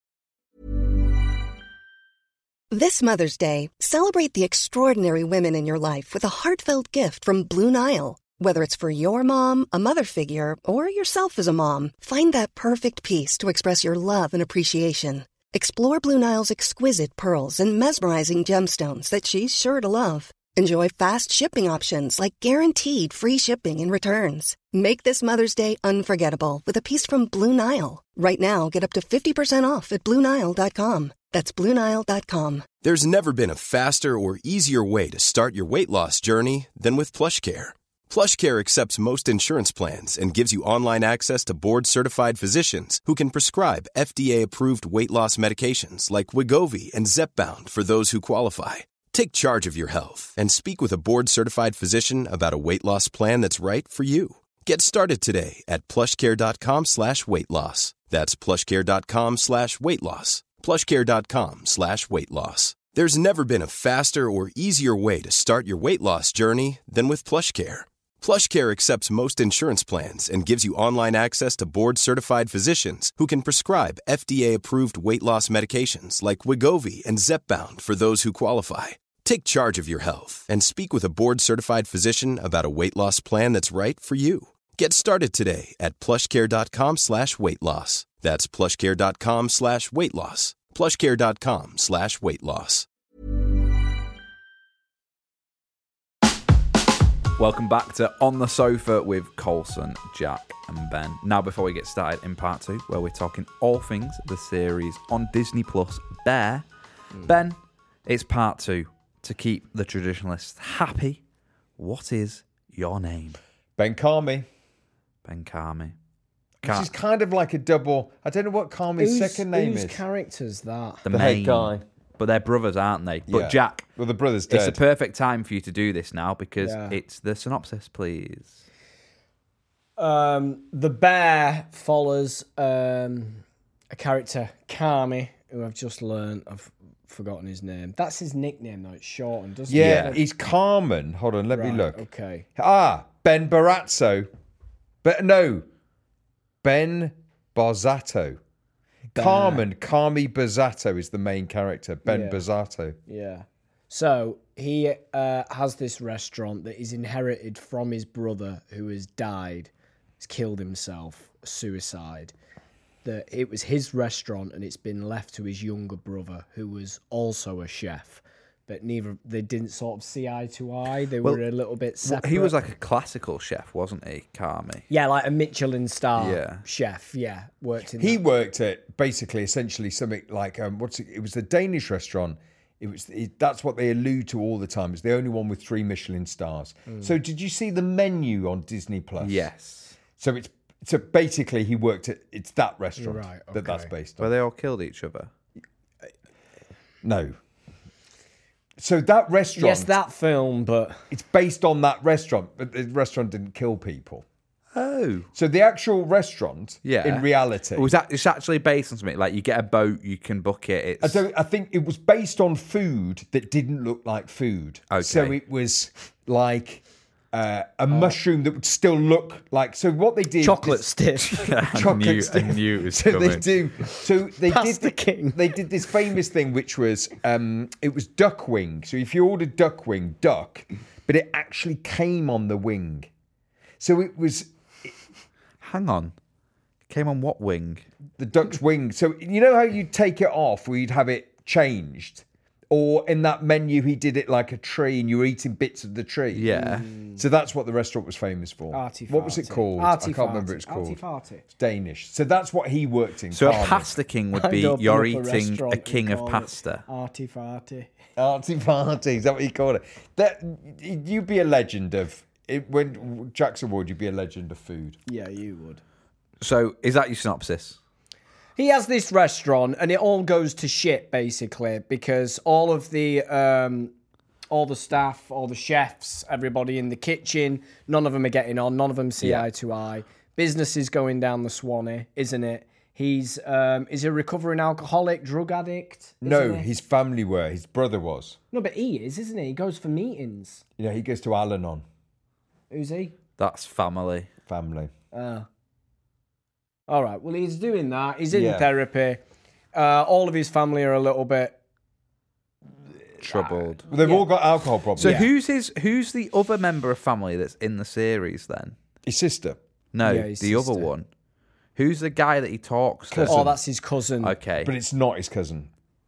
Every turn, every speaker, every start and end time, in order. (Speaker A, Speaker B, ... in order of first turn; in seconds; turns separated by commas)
Speaker A: 2.7-32.7, Speaker B: 32.8-92.9, Speaker C: 97.4-106.7, Speaker C: 107.2-111.2, Speaker C: 111.8-113.4, Speaker D: 113.8-114.5, Speaker C: 115.2-115.9, Speaker D: 116.6-120.0, Speaker C: 116.6-116.9, Speaker E: 119.0-121.1, Speaker C: 121.1-123.9, Speaker D: 121.1-121.8, Speaker D: 123.3-124.8, Speaker C: 124.5-128.6, Speaker E: 126.6-127.0, Speaker E: 130.0-140.2, Speaker D: 139.7-144.3, Speaker C: 139.7-140.2, Speaker E: 141.5-142.4, Speaker D: 145.0-145.7, Speaker D: 146.6-148.4, Speaker E: 149.1-149.6, Speaker D: 149.1-153.0, Speaker E: 152.0-152.4, Speaker E: 153.1-162.3, Speaker E: 163.0-172.6, Speaker C: 172.0-174.8, Speaker E: 174.9-178.2, Speaker C: 176.2-176.6, Speaker D: 178.0-189.5, Speaker C: 189.2-189.9, Speaker D: 190.2-194.3, Speaker E: 193.0-193.9, Speaker C: 194.2-195.3, Speaker D: 197.0-197.4, Speaker D: 198.8-199.9, Speaker E: 199.6-201.0, Speaker D: 201.1-204.2, Speaker C: 204.7-205.3, Speaker D: 205.3-207.9, Speaker C: 206.8-211.2, Speaker D: 211.0-220.8, Speaker C: 214.9-215.4, Speaker E: 217.9-218.2, Speaker E: 220.4-221.4, Speaker C: 221.2-223.4, Speaker D: 221.7-233.1, Speaker E: 224.4-225.7, Speaker D: 233.8-234.9, Speaker C: 235.6-236.1, Speaker C: 236.9-237.8, Speaker D: 238.2-246.6, Speaker C: 246.3-246.9, Speaker E: 246.5-247.2, Speaker D: 247.2-251.0, Speaker E: 248.7-251.4, Speaker D: 251.5-253.9, Speaker C: 253.3-256.8, Speaker E: 254.3-257.9, Speaker D: 258.1-265.0, Speaker E: 265.1-265.8, Speaker C: 266.4-267.8, Speaker E: 268.6-273.9, Speaker E: 274.5-286.7, Speaker C: 279.2-279.5, Speaker D: 286.2-288.4, Speaker E: 288.5-290.6, Speaker D: 290.8-291.8, Speaker E: 292.7-293.1, Speaker C: 293.4-294.3, Speaker D: 294.5-294.9, Speaker E: 295.1-295.5, Speaker E: 296.9-299.2, Speaker D: 298.3-298.7, Speaker E: 299.7-301.6, Speaker C: 303.2-303.8, Speaker D: 303.9-305.2, Speaker E: 303.9-304.3, Speaker C: 305.0-308.8, Speaker E: 305.0-305.3, Speaker D: 309.0-309.6, Speaker C: 309.9-311.1, Speaker E: 310.0-310.9, Speaker C: 311.8-313.5, Speaker D: 313.1-313.6, Speaker E: 313.2-314.3, Speaker C: 314.2-314.7, Speaker D: 314.6-315.7